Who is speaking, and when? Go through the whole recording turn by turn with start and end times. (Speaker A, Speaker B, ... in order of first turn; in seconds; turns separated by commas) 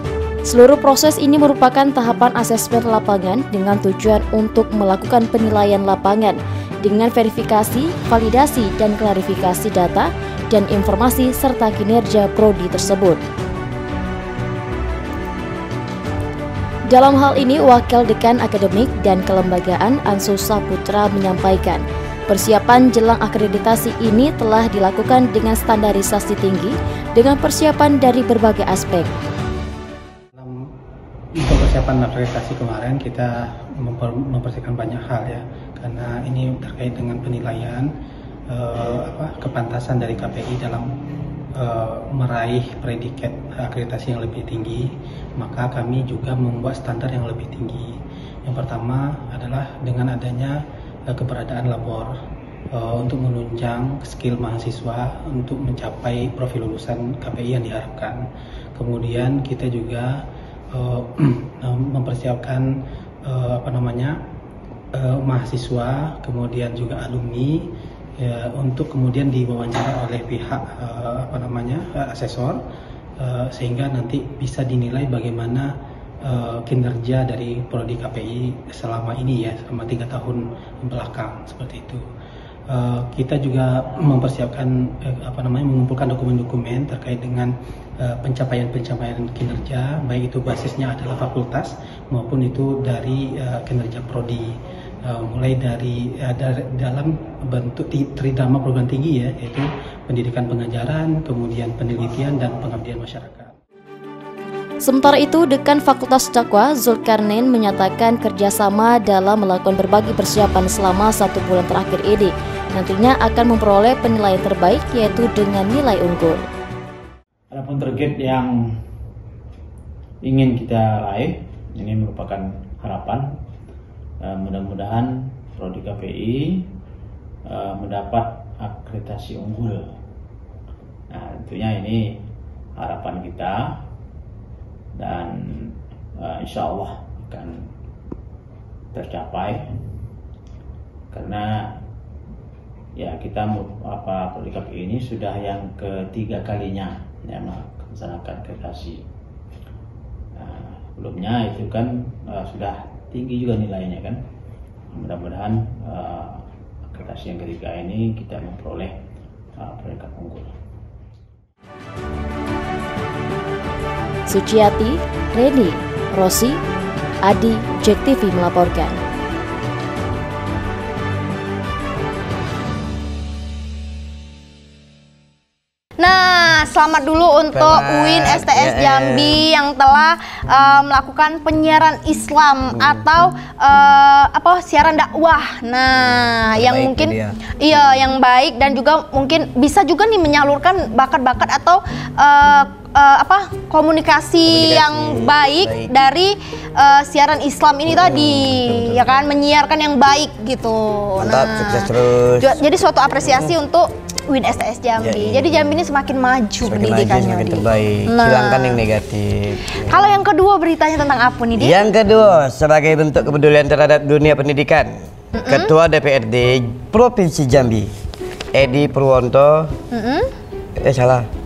Speaker A: 0.5-13.2, Speaker A: 16.9-29.1, Speaker B: 30.4-30.7, Speaker B: 31.4-37.9, Speaker B: 38.5-40.9, Speaker B: 41.6-52.1, Speaker B: 52.7-58.2, Speaker B: 58.8-62.7, Speaker B: 63.2-64.2, Speaker B: 64.9-72.6, Speaker B: 73.2-75.7, Speaker B: 76.2-82.1, Speaker B: 82.7-103.5, Speaker A: 104.8-116.4, Speaker C: 117.5-118.6, Speaker C: 120.2-123.3, Speaker C: 124.2-126.7, Speaker C: 127.5-129.9, Speaker C: 131.1-132.1, Speaker C: 132.8-133.7, Speaker C: 134.9-137.6, Speaker C: 138.9-139.7, Speaker C: 141.1-141.7, Speaker C: 142.9-149.0, Speaker C: 150.4-154.2, Speaker C: 154.9-158.9, Speaker C: 159.6-160.6, Speaker A: 164.3-166.6, Speaker A: 167.2-169.0, Speaker D: 176.0-201.9, Speaker E: 177.5-179.4, Speaker E: 182.7-183.1, Speaker E: 186.6-187.4, Speaker E: 194.4-195.9, Speaker E: 197.9-199.2, Speaker E: 201.2-202.6, Speaker D: 202.4-208.8, Speaker E: 203.2-203.6, Speaker E: 205.0-205.7, Speaker E: 206.6-210.0, Speaker D: 209.9-211.8, Speaker E: 211.6-214.9, Speaker D: 215.4-215.7, Speaker E: 215.5-217.9, Speaker E: 218.5-219.7, Speaker D: 219.9-220.3, Speaker E: 220.8-221.3